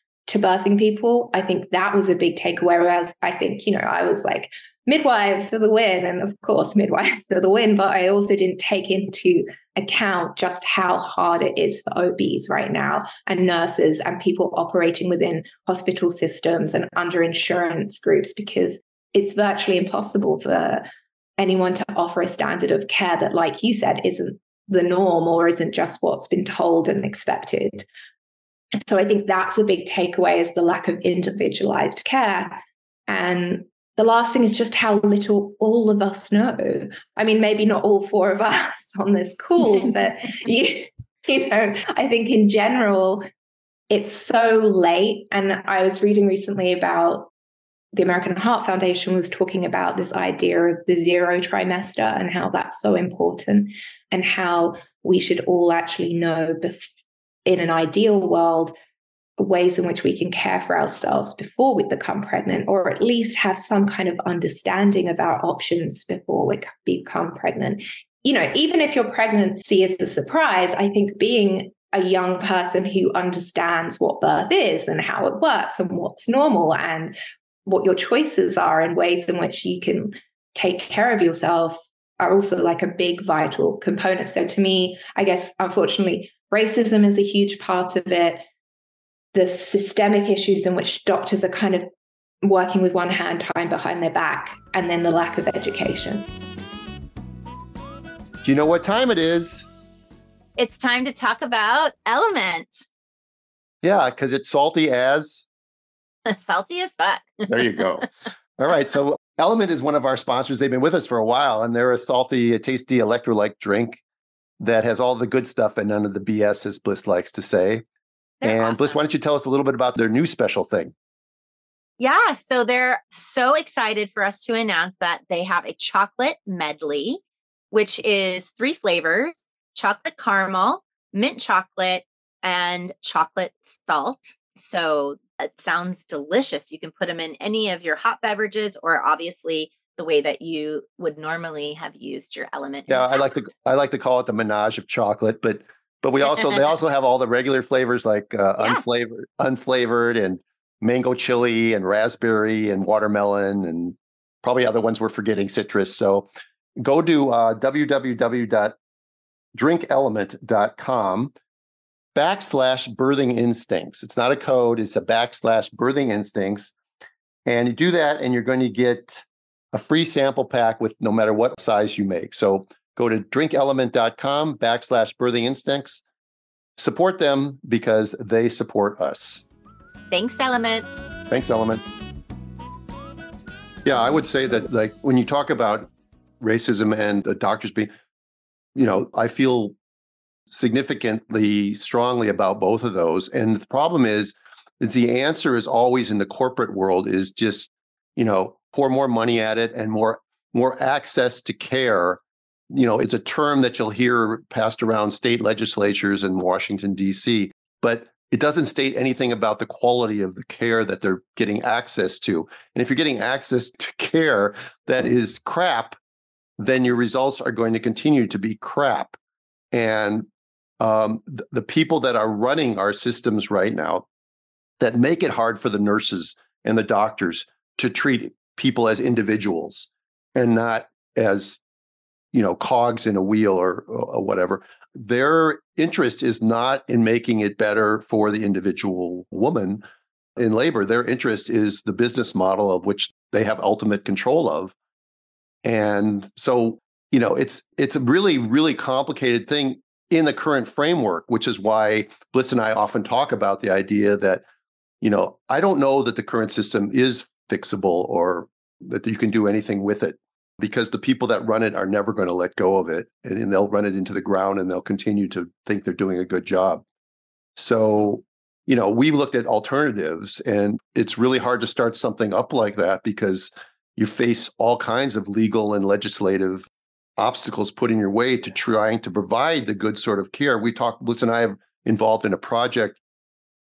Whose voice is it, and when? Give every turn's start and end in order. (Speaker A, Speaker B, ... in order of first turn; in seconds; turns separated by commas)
Speaker A: 0.3-20.9, Speaker A: 21.4-27.9, Speaker A: 28.9-43.2, Speaker A: 43.9-47.3, Speaker A: 47.9-56.9, Speaker A: 57.5-58.7, Speaker A: 59.4-88.4, Speaker A: 89.3-91.9, Speaker A: 92.4-96.3, Speaker B: 98.4-99.7, Speaker C: 100.6-102.9, Speaker B: 103.8-105.5, Speaker C: 106.3-107.8, Speaker B: 107.5-114.0, Speaker B: 114.6-117.8, Speaker C: 118.4-119.0, Speaker B: 118.4-120.9, Speaker C: 122.0-143.4, Speaker B: 142.9-156.3, Speaker B: 156.8-158.8, Speaker B: 159.6-161.3, Speaker B: 162.2-166.7, Speaker B: 167.5-176.0, Speaker B: 176.8-179.4, Speaker C: 180.1-180.9, Speaker B: 181.3-181.8, Speaker B: 183.8-185.9, Speaker B: 186.4-187.9, Speaker B: 188.8-189.8, Speaker B: 190.5-202.2, Speaker B: 202.7-216.0, Speaker B: 216.6-219.2, Speaker B: 219.7-220.3, Speaker B: 220.8-224.1, Speaker B: 224.8-231.6, Speaker B: 232.3-239.8, Speaker B: 240.4-244.8, Speaker B: 245.7-254.4, Speaker B: 255.0-266.8, Speaker B: 267.6-283.0